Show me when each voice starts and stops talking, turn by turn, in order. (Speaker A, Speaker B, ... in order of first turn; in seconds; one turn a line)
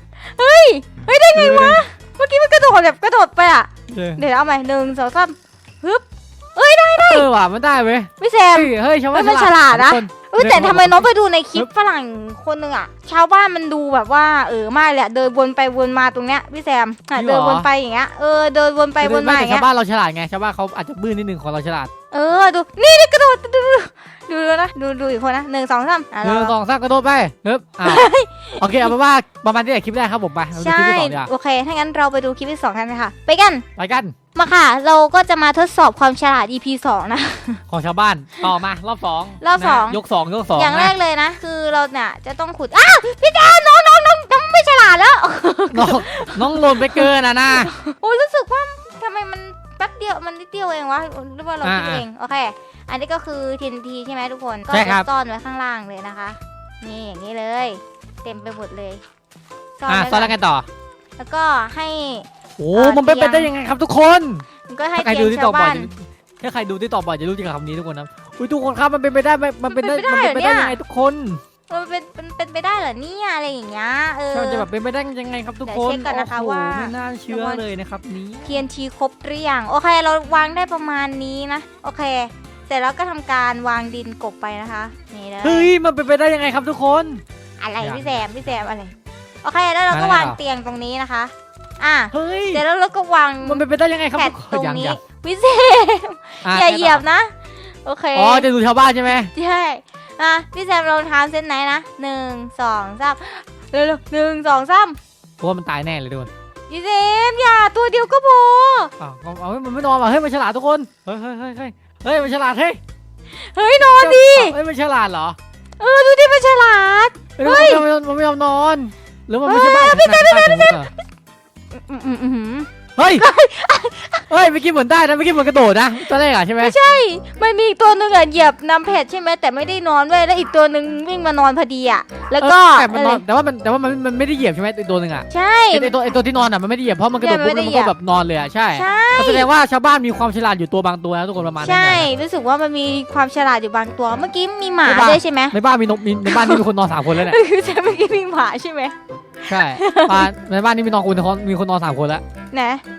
Speaker A: 0.2-7.3
Speaker B: 1.3-1.8
Speaker B: 3.9-4.2
Speaker B: 7.0-11.7
Speaker A: 8.2-19.7
Speaker B: 17.1-17.7
Speaker B: 19.0-21.9
Speaker A: 22.1-26.6
Speaker B: 26.2-28.1
Speaker A: 27.8-28.9
Speaker B: 28.6-31.3
Speaker A: 30.6-33.7
Speaker B: 33.8-34.1
Speaker A: 34.4-37.6
Speaker B: 37.7-41.0
Speaker A: 39.4-40.0
Speaker A: 40.5-59.0
Speaker B: 45.7-47.7
Speaker B: 51.6-52.0
Speaker B: 54.7-55.1
Speaker A: 59.8-60.3
Speaker B: 59.9-60.7
Speaker A: 61.2-63.5
Speaker B: 62.6-71.4
Speaker A: 64.7-65.9
Speaker A: 69.7-70.8
Speaker A: 71.7-74.7
Speaker B: 74.3-78.6
Speaker A: 75.7-77.6
Speaker A: 78.4-85.7
Speaker B: 85.4-87.2
Speaker A: 87.6-98.5
Speaker B: 87.8-88.3
Speaker B: 89.9-90.4
Speaker B: 92.1-92.6
Speaker B: 93.4-95.0
Speaker B: 96.4-97.0
Speaker B: 98.2-99.3
Speaker A: 99.3-105.0
Speaker B: 105.4-106.3
Speaker A: 106.7-108.9
Speaker B: 109.0-112.8
Speaker A: 113.3-114.6
Speaker B: 114.0-115.4
Speaker A: 115.8-117.8
Speaker B: 117.4-120.9
Speaker A: 119.5-120.9
Speaker A: 121.7-124.3
Speaker B: 123.0-123.3
Speaker B: 124.3-126.8
Speaker A: 126.6-133.2
Speaker B: 132.4-142.1
Speaker A: 135.3-136.1
Speaker A: 137.2-137.9
Speaker A: 138.7-139.5
Speaker A: 141.6-145.6
Speaker B: 144.8-147.4
Speaker A: 146.3-150.2
Speaker B: 149.5-152.2
Speaker A: 152.5-152.8